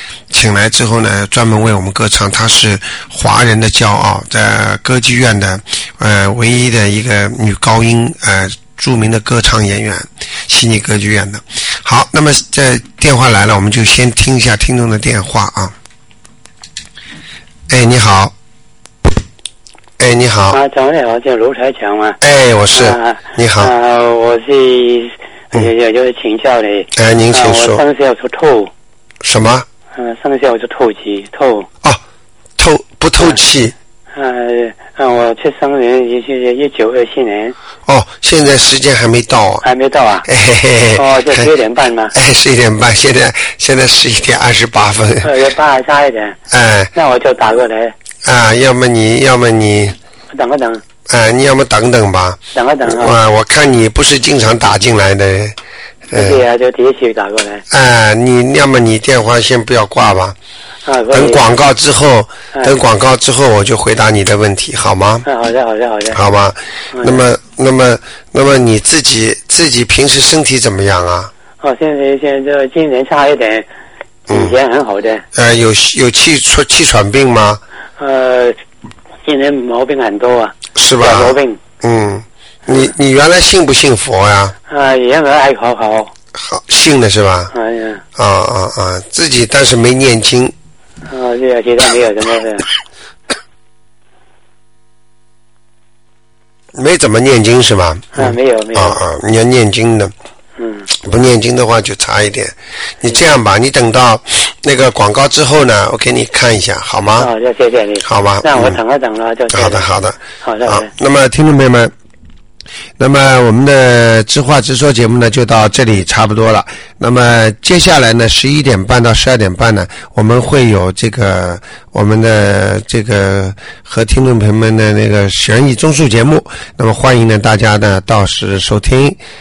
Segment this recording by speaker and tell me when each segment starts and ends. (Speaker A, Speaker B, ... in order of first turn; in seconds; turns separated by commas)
Speaker A: 0.3-15.8, Speaker A: 17.7-18.3, Speaker A: 20.0-20.6, Speaker B: 20.5-22.2, Speaker A: 22.2-23.7, Speaker B: 22.7-28.7, Speaker A: 26.9-27.8, Speaker A: 29.2-29.7, Speaker B: 29.9-31.7, Speaker A: 32.6-33.8, Speaker B: 34.1-37.5, Speaker A: 37.9-39.6, Speaker B: 39.6-40.3, Speaker A: 40.2-41.5, Speaker B: 41.0-42.1, Speaker A: 42.1-45.3, Speaker B: 45.2-46.4, Speaker A: 46.5-46.9, Speaker B: 46.9-48.0, Speaker A: 48.2-50.0, Speaker B: 50.3-50.8, Speaker A: 51.1-55.6, Speaker B: 52.5-53.2, Speaker B: 56.1-57.6, Speaker A: 56.1-56.4, Speaker A: 57.7-60.4, Speaker B: 60.8-61.5, Speaker A: 61.1-65.2, Speaker B: 65.2-66.2, Speaker A: 66.1-71.3, Speaker B: 66.9-67.2, Speaker B: 71.6-73.7, Speaker B: 74.3-75.2, Speaker A: 74.3-74.6, Speaker A: 75.3-77.6, Speaker B: 78.0-78.6, Speaker B: 79.2-81.6, Speaker A: 80.8-84.6, Speaker B: 84.7-86.1, Speaker A: 86.3-87.5, Speaker B: 87.5-88.0, Speaker A: 88.2-90.5, Speaker B: 91.1-92.7, Speaker A: 96.8-100.1, Speaker B: 98.1-99.0, Speaker B: 100.6-100.9, Speaker A: 100.9-107.3, Speaker B: 107.2-110.9, Speaker A: 108.0-108.8, Speaker A: 109.5-111.9, Speaker A: 113.0-129.2